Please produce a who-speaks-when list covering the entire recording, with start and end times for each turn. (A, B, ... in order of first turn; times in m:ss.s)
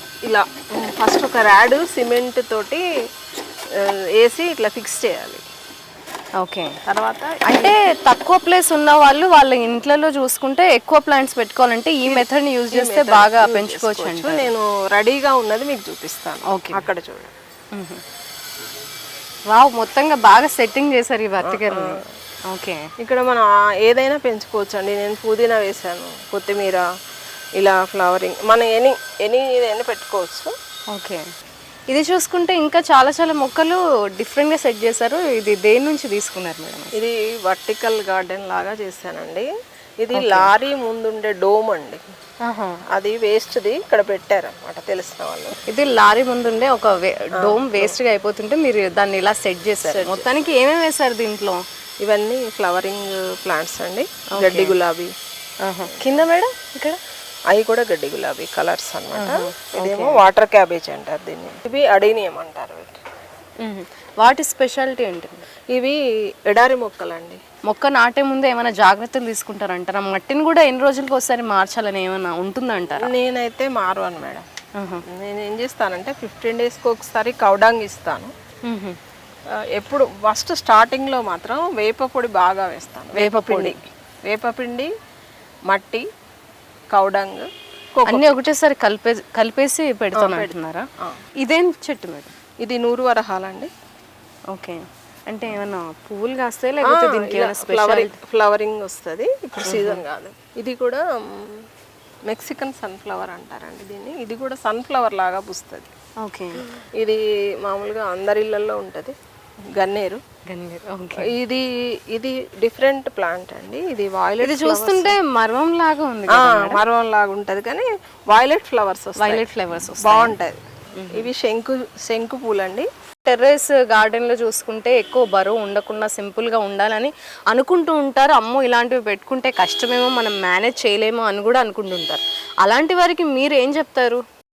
0:00.3-0:02.8 A
0:03.8-0:05.4 A
0:06.4-0:06.8 B
0:06.9-0:07.8 A
0:07.5-0:14.5 B
0:12.1-0:17.3 A
0:16.5-0:16.8 B
0:17.7-0:18.0 B
0:19.5-0:22.8 B
0:21.4-0:22.0 A
0:23.0-0:26.8 A
0:27.6-0:30.5 A
0:30.9-0:31.2 B
0:31.9-0:36.9 B
0:37.0-0:39.5 A
0:40.0-0:42.1 A
0:40.1-0:40.5 B
0:42.4-0:42.8 B
0:42.9-0:45.6 A
0:45.7-0:51.6 B
0:47.4-0:48.0 A
0:49.8-0:50.3 A
0:52.0-0:55.1 A
0:54.4-0:54.8 B
0:55.6-0:57.0 B
0:55.8-0:56.3 A
0:57.5-1:03.0 A
0:59.2-1:00.2 B
1:03.6-1:05.4 B
1:05.7-1:07.4 A
1:07.7-1:13.1 B
1:13.0-1:14.5 A
1:14.8-1:15.0 B
1:15.1-1:18.3 A
1:18.7-1:19.0 B
1:19.8-1:24.9 A
1:23.2-1:23.8 B
1:25.7-1:26.0 A
1:26.9-1:28.4 A
1:28.1-1:30.9 B
1:30.2-1:31.2 A
1:31.4-1:32.3 B
1:32.6-1:33.7 A
1:34.5-1:38.2 B
1:36.9-1:41.7 A
1:39.7-1:40.0 B
1:42.3-1:45.9 A
1:46.2-1:46.6 B
1:46.8-1:49.2 A
1:49.8-1:50.2 A
1:50.5-1:51.3 B
1:51.2-1:55.2 A
1:54.4-1:56.8 B
1:56.3-1:59.5 A
1:59.2-2:00.3 B
2:00.0-2:00.6 A
2:01.0-2:01.3 B
2:01.1-2:02.9 A
2:03.3-2:14.2 B